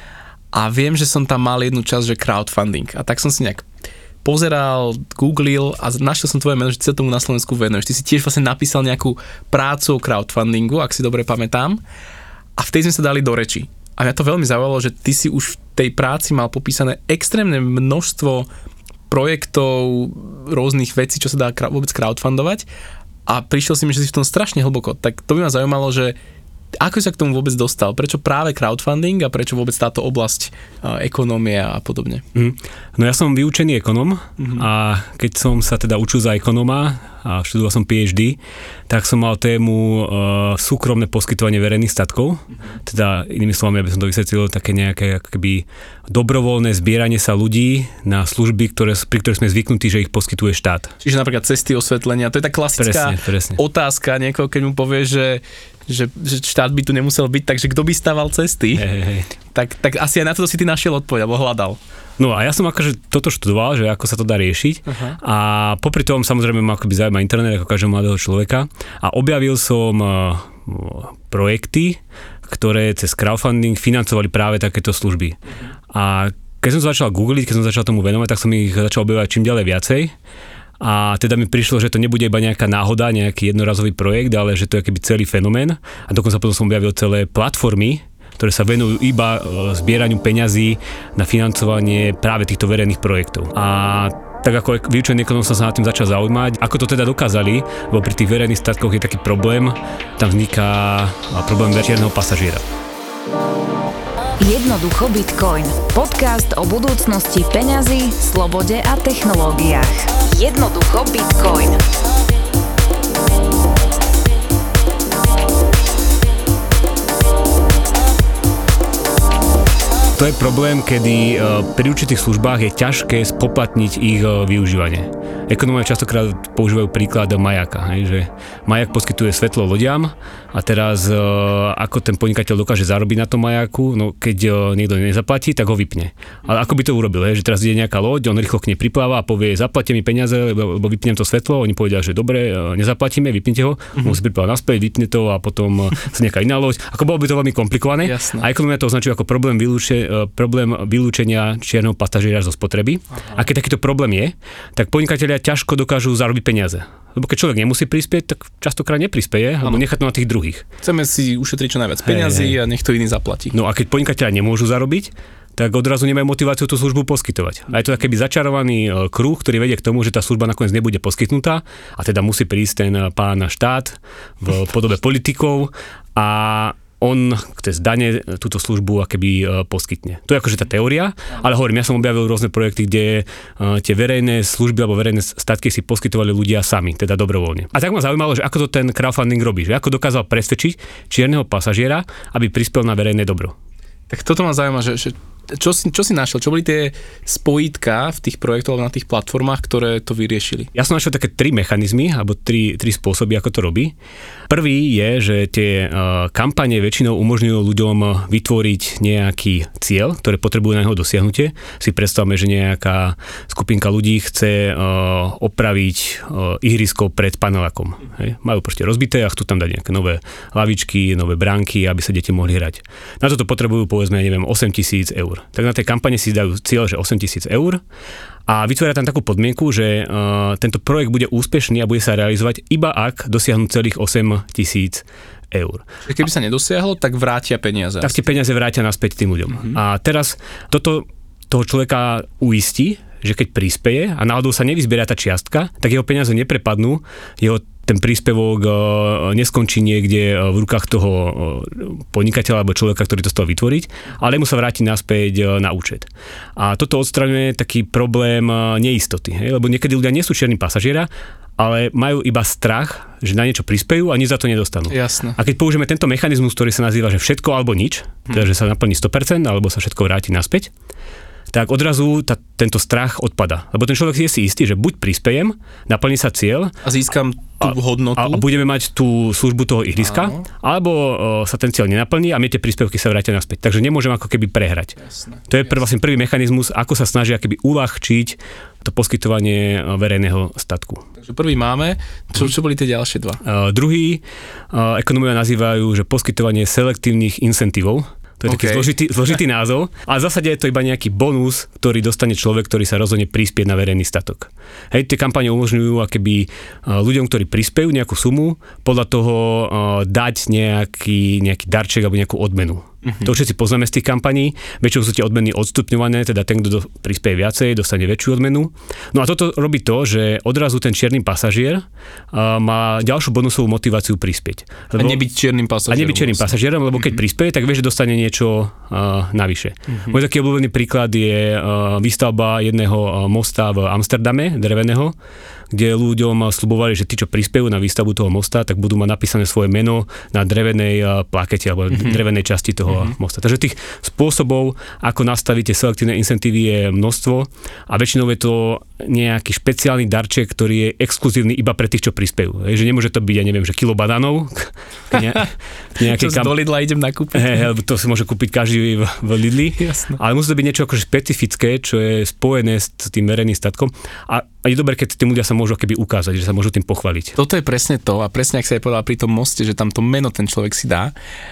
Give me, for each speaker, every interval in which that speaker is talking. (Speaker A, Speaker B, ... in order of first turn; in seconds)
Speaker A: 0.5-3.7, 4.2-11.8, 12.6-18.5, 19.1-22.6, 23.3-26.1, 26.8-32.2, 34.4-34.6, 51.0-58.9, 59.5-61.8, 64.8-65.2, 148.0-148.5, 160.8-163.6, 194.1-200.7, 236.0-238.2, 264.9-265.4, 276.8-278.4, 280.0-280.4, 285.0-285.5, 291.2-293.4, 298.5-298.9, 313.0-313.3, 325.0-326.5, 329.9-330.1, 341.9-342.2, 355.1-357.6, 359.8-360.2, 367.4-371.1
Speaker B: 32.3-50.9, 52.8-53.6, 58.8-59.3, 62.2-75.4, 75.9-80.1, 80.8-102.7, 120.2-160.6, 162.0-162.6, 163.5-193.5, 200.7-203.9, 204.5-227.8, 228.5-235.8, 238.0-270.7, 271.5-276.8, 277.6-285.0, 285.5-291.0, 293.4-325.2, 325.9-335.1, 335.7-356.5, 357.3-367.4
Speaker C: 104.4-111.8